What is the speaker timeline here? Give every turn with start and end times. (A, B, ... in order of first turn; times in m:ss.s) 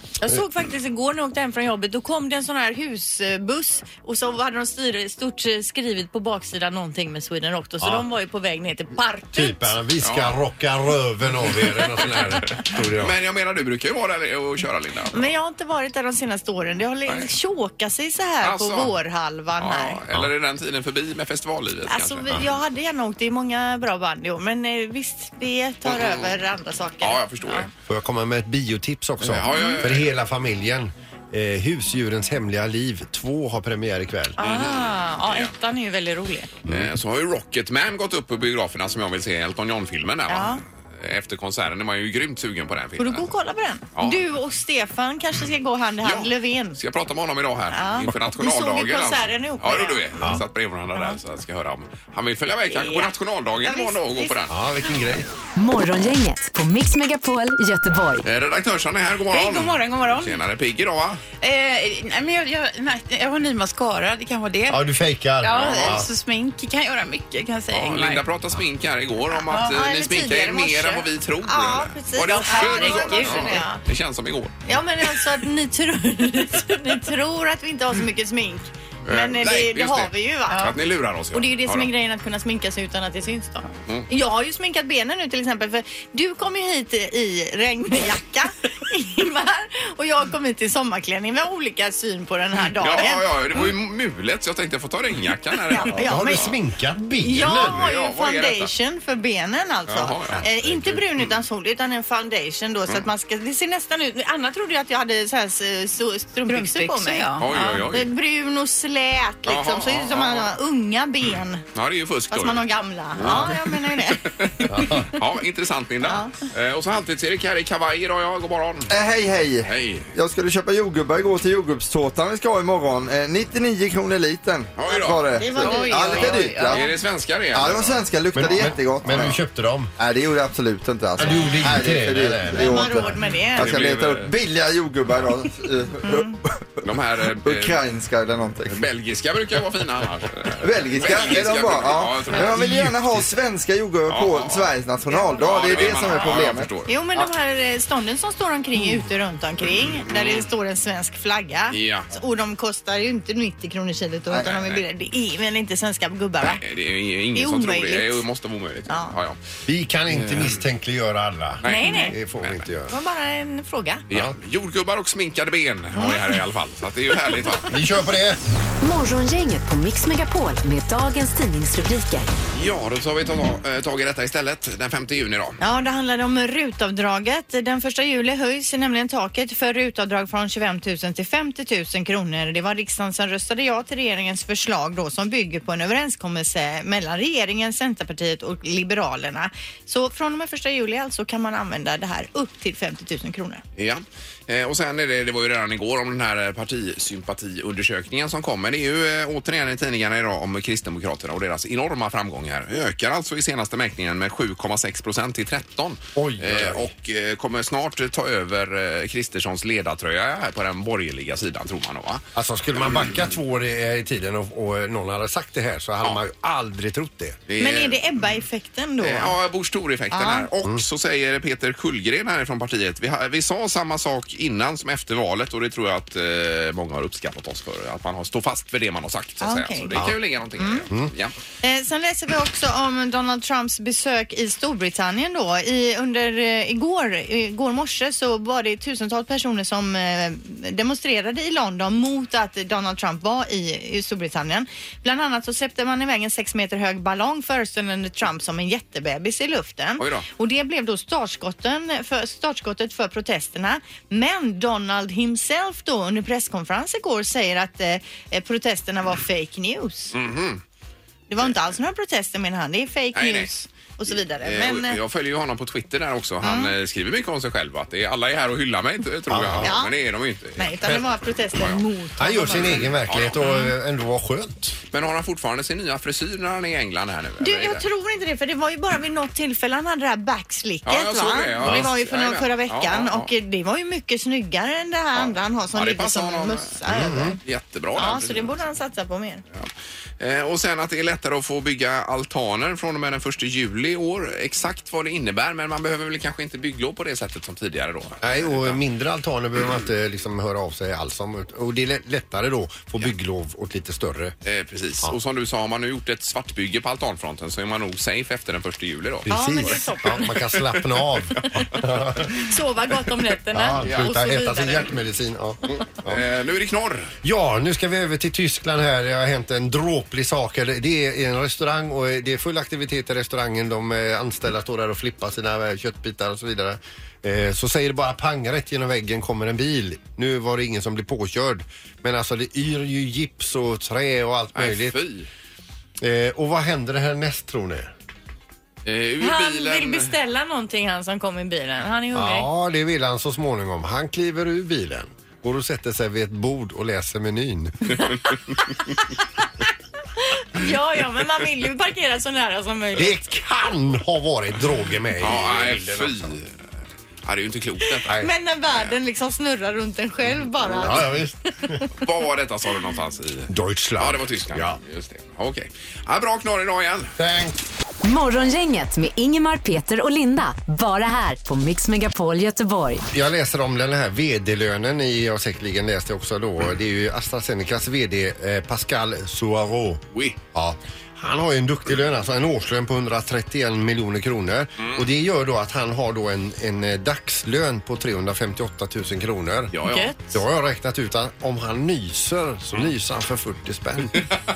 0:00.2-0:09.8 A
0:07.8-0:08.0 B
0:09.3-0:13.1 B
0:10.0-0:10.4 C
0:12.6-0:15.3 C
0:15.1-0:20.0 A
0:18.4-0:19.0 C
0:19.6-0:22.4 C
0:21.9-0:27.7 A
0:25.8-0:26.3 C
0:27.0-0:27.7 C
0:27.9-0:34.4 B
0:29.2-0:30.1 C
0:29.5-0:29.8 A
0:34.4-0:36.6 A
0:34.4-0:35.5 C
0:36.6-0:36.9 B
0:36.6-0:43.3 C
0:40.3-0:40.6 A
0:43.0-0:46.8 A
0:43.9-0:44.2 C
0:46.0-0:54.6 C
0:47.7-0:50.0 A
0:52.7-0:54.4 A
0:54.5-0:55.3 B
0:55.5-0:58.2 D
0:58.2-1:01.2 C
0:59.3-1:00.4 E
1:01.4-1:04.8 E
1:04.7-1:06.1 B
1:05.4-1:08.2 E
1:05.6-1:06.0 C
1:07.7-1:14.6 C
1:09.5-1:13.8 A
1:12.4-1:13.6 E
1:14.6-1:20.8 A
1:19.0-1:21.9 C
1:21.3-1:33.3 A
1:32.7-1:36.5 C
1:35.7-1:36.5 A
1:35.8-1:37.9 B
1:37.2-1:51.6 A
1:37.4-1:38.7 C
1:39.9-1:40.5 C
1:40.4-1:41.0 B
1:46.5-1:47.7 E
1:47.4-1:48.1 C
1:49.4-1:50.5 C
1:51.7-1:52.6 C
1:52.3-1:55.1 A
1:53.1-1:58.9 C
1:53.2-1:53.5 B
1:54.7-1:55.1 B
1:56.0-1:56.3 A
1:58.9-2:06.8 F
1:59.6-2:00.1 C
2:04.8-2:05.4 C
2:05.4-2:06.8 A
2:05.5-2:06.8 E
2:06.6-2:08.0 C
2:07.5-2:09.3 F
2:08.3-2:09.9 B
2:09.1-2:09.4 C
2:10.0-2:16.3 F
2:11.2-2:12.8 B
2:12.5-2:13.7 A
2:13.6-2:14.3 C
2:16.0-2:16.4 A
2:16.8-2:17.8 C
2:17.4-2:18.9 F
2:18.7-2:22.8 C
2:20.6-2:27.3 F
2:22.4-2:23.2 B
2:24.1-2:26.9 C
2:26.9-2:36.6 A
2:30.0-2:30.4 C
2:31.7-2:32.1 C
2:34.4-2:34.8 C
2:36.4-2:39.4 C
2:37.3-2:38.2 A
2:38.9-2:39.1 A
2:39.6-2:42.9 B
2:40.1-2:40.6 C
2:41.6-2:42.6 C
2:41.6-2:42.2 A
2:42.9-2:44.0 A
2:44.1-2:47.8 C
2:46.0-2:46.3 A
2:47.7-2:48.4 B
2:48.8-2:52.3 D
2:52.5-2:55.6 C
2:55.6-3:13.6 A
3:13.8-3:32.2 C
3:26.2-3:26.9 B
3:32.3-3:37.4 B
3:37.5-3:38.0 C
3:37.6-3:39.4 A
3:39.0-3:51.3 C
3:40.1-3:40.5 A
3:49.4-3:50.0 A
3:50.6-3:50.9 A
3:51.6-4:20.1 A
4:10.0-4:10.3 C
4:20.1-4:20.6 C
4:21.3-4:25.0 A
4:23.1-4:23.5 C
4:24.4-4:31.0 C
4:26.4-4:26.7 A
4:29.3-4:29.7 B
4:29.6-4:29.9 A
4:30.6-4:32.9 A
4:31.5-4:31.8 C
4:32.2-4:34.8 B
4:32.6-4:33.5 C
4:34.9-4:37.8 C
4:37.4-4:47.4 A
4:40.8-4:43.3 C
4:41.6-4:41.9 B
4:45.1-4:46.8 C
4:46.9-4:47.4 B
4:47.4-4:48.6 C
4:47.9-4:49.4 A
4:49.5-4:58.8 C
4:58.2-5:04.3 B
5:04.4-5:09.9 C
5:09.2-5:12.3 B
5:09.3-5:10.5 A
5:11.4-5:11.6 C
5:12.4-5:14.9 A
5:13.5-5:16.2 B
5:13.8-5:14.1 C
5:16.0-5:17.1 C
5:17.2-5:35.0 B
5:34.5-5:35.3 C
5:36.0-5:37.9 B
5:38.8-5:40.1 C
5:39.2-5:42.5 A
5:42.1-5:48.0 B
5:50.2-5:53.2 A
5:53.0-5:56.3 B
5:55.2-5:56.6 C
5:57.2-5:58.2 C
5:58.1-6:01.9 A
6:00.6-6:01.7 B
6:02.0-6:07.1 C
6:03.5-6:04.8 B
6:07.2-6:07.6 B
6:08.0-6:13.0 D
6:13.1-6:29.7 B
6:24.8-6:25.0 C
6:29.7-6:30.1 C
6:29.8-6:30.2 A
6:30.3-6:34.2 B